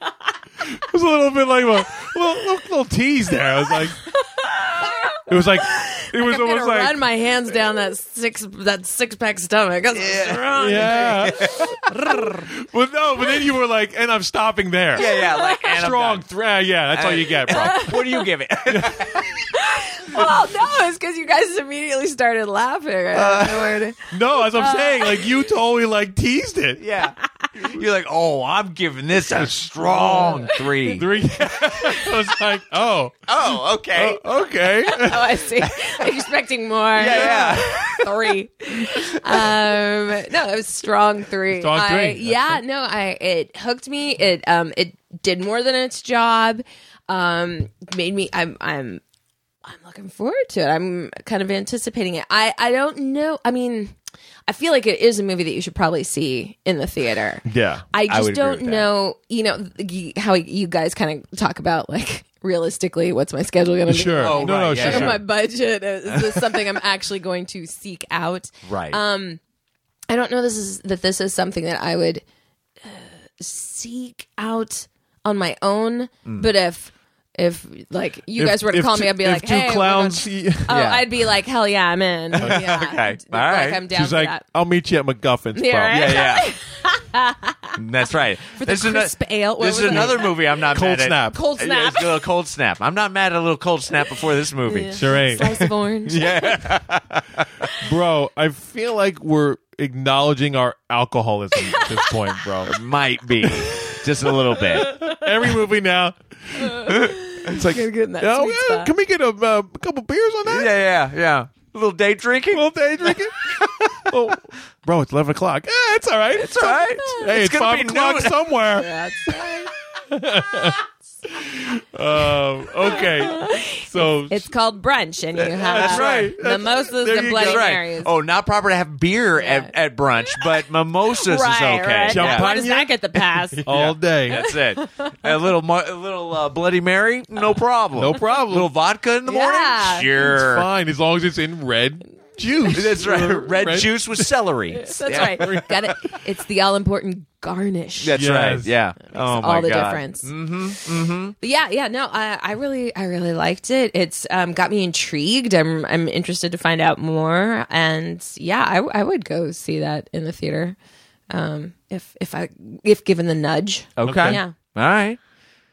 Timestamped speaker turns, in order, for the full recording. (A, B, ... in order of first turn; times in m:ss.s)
0:00.6-0:04.0 A
0:04.0-0:12.5 B
0:05.3-0:07.0 A
0:09.9-0:11.7 C
0:10.6-0:17.9 A
0:14.9-0:16.3 C
0:15.0-0:15.7 B
0:16.9-0:19.4 C
0:17.5-0:18.3 B
0:18.7-0:19.1 A
0:19.2-0:25.3 B
0:23.1-0:23.8 C
0:24.1-0:26.8 A
0:26.8-0:31.1 C
0:29.4-0:33.3 A
0:30.0-0:31.0 B
0:33.3-0:34.2 C
0:33.9-0:35.4 A
0:34.9-0:49.0 B
0:36.9-0:38.3 C
0:37.2-0:37.6 A
0:38.9-0:39.5 C
0:41.5-0:42.6 A
0:49.6-0:53.9 B
0:54.5-1:09.4 B
0:57.5-0:57.8 A
0:58.1-0:58.9 C
1:03.9-1:05.2 A
1:04.2-1:05.2 C
1:06.1-1:06.6 C
1:08.6-1:09.0 C
1:10.1-1:12.2 B
1:12.8-1:24.4 B
1:18.4-1:20.8 A
1:20.7-1:21.1 C
1:22.3-1:23.8 C
1:22.4-1:22.7 A
1:23.9-1:26.2 A
1:25.6-1:27.8 B
1:25.9-1:26.5 C
1:27.8-1:37.7 C
1:28.5-1:30.7 B
1:30.7-1:31.4 A
1:31.3-1:32.2 B
1:34.6-1:36.7 B
1:35.0-1:35.6 A
1:37.8-1:42.8 A
1:41.6-1:42.1 B
1:42.6-1:45.0 C
1:43.4-1:44.0 A
1:44.7-1:45.2 B
1:44.8-1:50.8 A
1:46.6-1:48.9 B
1:50.4-1:54.2 C
1:52.5-1:53.5 A
1:54.1-1:59.5 A
1:56.3-1:58.5 C
1:58.7-1:59.7 B
2:00.1-2:04.5 A
2:02.9-2:08.1 B
2:05.6-2:07.7 A
2:05.7-2:06.4 C
2:07.3-2:12.5 C
2:09.4-2:09.7 B
2:11.1-2:13.7 B
2:12.1-2:12.9 A
2:13.2-2:20.7 C
2:13.7-2:14.5 A
2:14.5-2:15.1 B
2:18.0-2:18.7 A
2:19.3-2:20.1 B
2:20.1-2:24.3 A
2:22.7-2:25.6 C
2:24.7-2:28.2 B
2:25.1-2:26.0 A
2:28.0-2:31.3 C
2:28.2-2:28.8 A
2:29.1-2:30.9 B
2:31.4-2:40.8 B
2:41.3-2:44.5 B
2:44.0-2:45.2 C
2:44.0-2:44.4 A